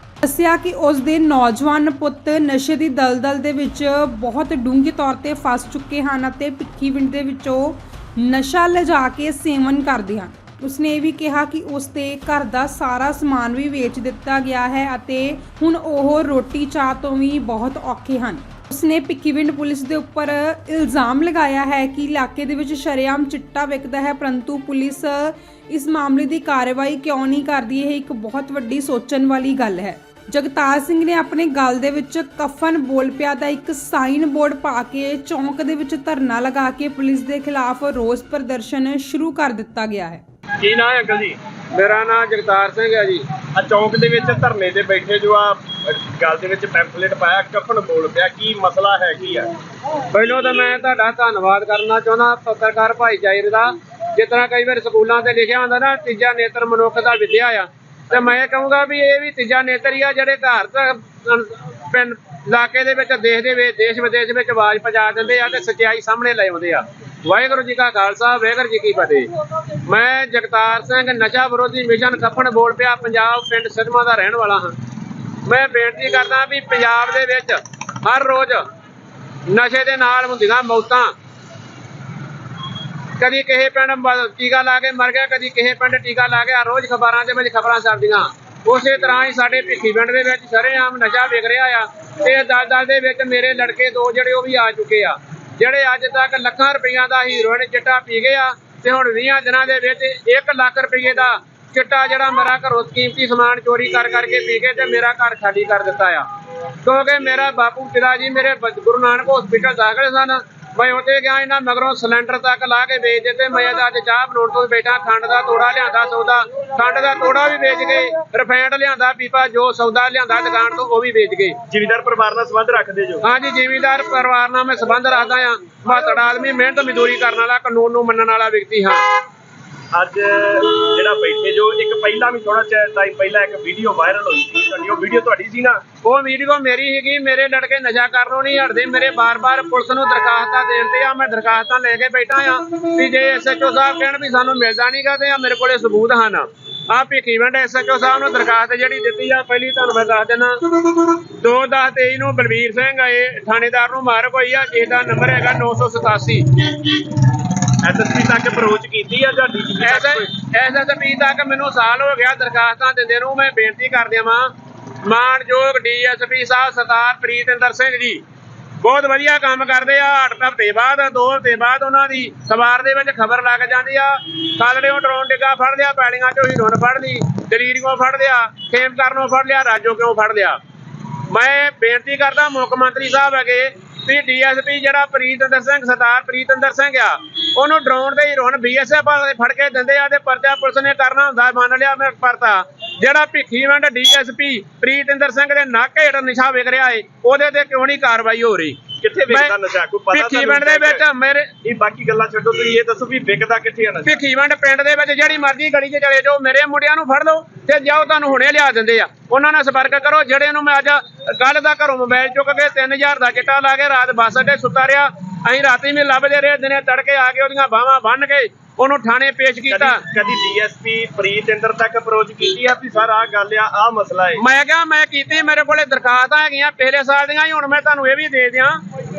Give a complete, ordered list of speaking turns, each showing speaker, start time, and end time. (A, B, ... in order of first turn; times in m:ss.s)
0:00.2-0:40.2 A
0:40.6-0:41.4 B
0:41.7-0:43.3 C
0:43.6-0:49.5 B
0:50.1-1:09.3 C
1:09.8-1:14.7 C
1:15.5-1:18.6 C
1:19.5-1:21.1 C
1:23.2-1:46.3 C
1:46.8-2:01.6 C
2:01.7-2:03.2 B
2:03.2-2:09.0 C
2:09.9-2:15.8 B
2:16.0-2:37.0 C
2:37.8-2:40.3 B
2:39.8-2:44.5 C
2:45.0-2:48.2 C
2:48.8-3:00.6 C
3:01.3-3:19.6 C
3:19.0-3:21.0 B
3:20.1-3:21.5 C
3:21.6-3:24.2 B
3:24.0-3:40.0 C
3:39.7-3:44.4 B
3:44.4-3:48.8 C